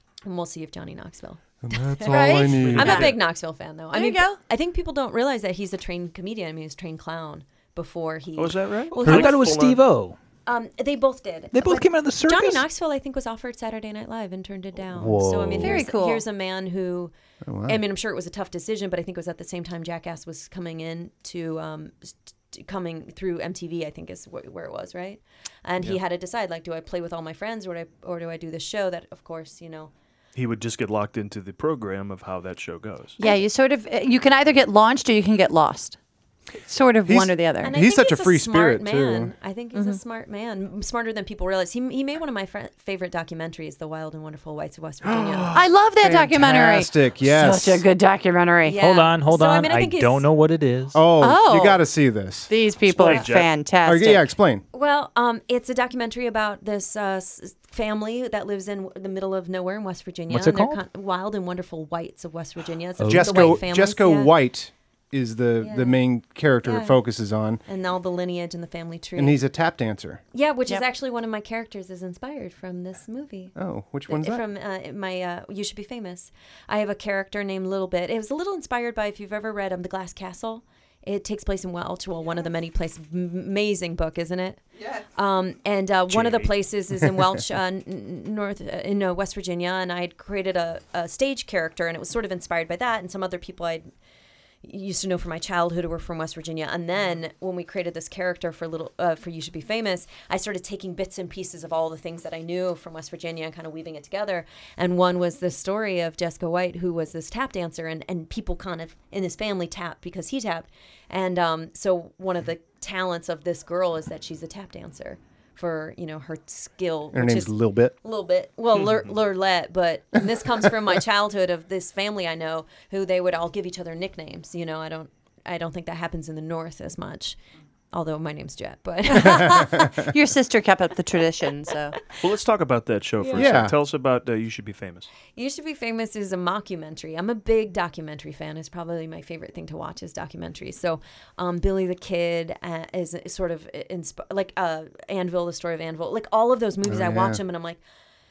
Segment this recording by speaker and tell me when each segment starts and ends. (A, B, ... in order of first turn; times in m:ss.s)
0:00.2-0:09.7 A
0:01.6-0:03.1 B
0:02.0-0:03.2 C
0:02.6-0:03.2 D
0:03.9-0:04.4 C
0:08.4-0:09.8 D
0:08.9-0:10.2 E
0:10.5-0:17.1 A
0:11.5-0:12.6 E
0:14.9-0:15.8 E
0:15.6-0:16.2 C
0:17.4-0:17.8 B
0:17.7-0:29.9 A
0:30.4-0:33.2 D
0:33.2-0:36.0 C
0:36.7-0:37.8 C
0:37.1-0:39.3 B
0:37.6-0:45.6 A
0:39.7-0:40.0 C
0:45.0-0:47.8 B
0:45.5-0:48.8 C
0:48.6-0:50.3 A
0:48.8-0:51.0 E
0:50.9-0:52.5 B
0:51.2-0:51.8 C
0:52.5-0:54.3 C
0:52.9-0:53.5 D
0:53.8-0:54.6 B
0:54.7-1:04.4 A
1:00.3-1:00.8 E
1:03.0-1:03.6 E
1:03.1-1:07.6 B
1:05.6-1:06.0 A
1:06.6-1:07.0 A
1:07.7-1:09.4 A
1:09.2-1:10.2 B
1:10.3-1:13.6 A
1:13.6-1:14.5 B
1:14.1-1:33.9 A
1:26.1-1:26.5 D
1:34.6-2:07.4 A
1:57.1-1:58.0 B
1:58.8-1:59.1 D
2:07.9-2:09.9 A
2:09.1-2:12.0 C
2:09.2-2:10.0 B
2:12.2-2:15.1 D
2:13.2-2:13.6 A
2:13.3-2:13.8 B
2:15.3-2:27.8 A
2:26.8-2:27.4 B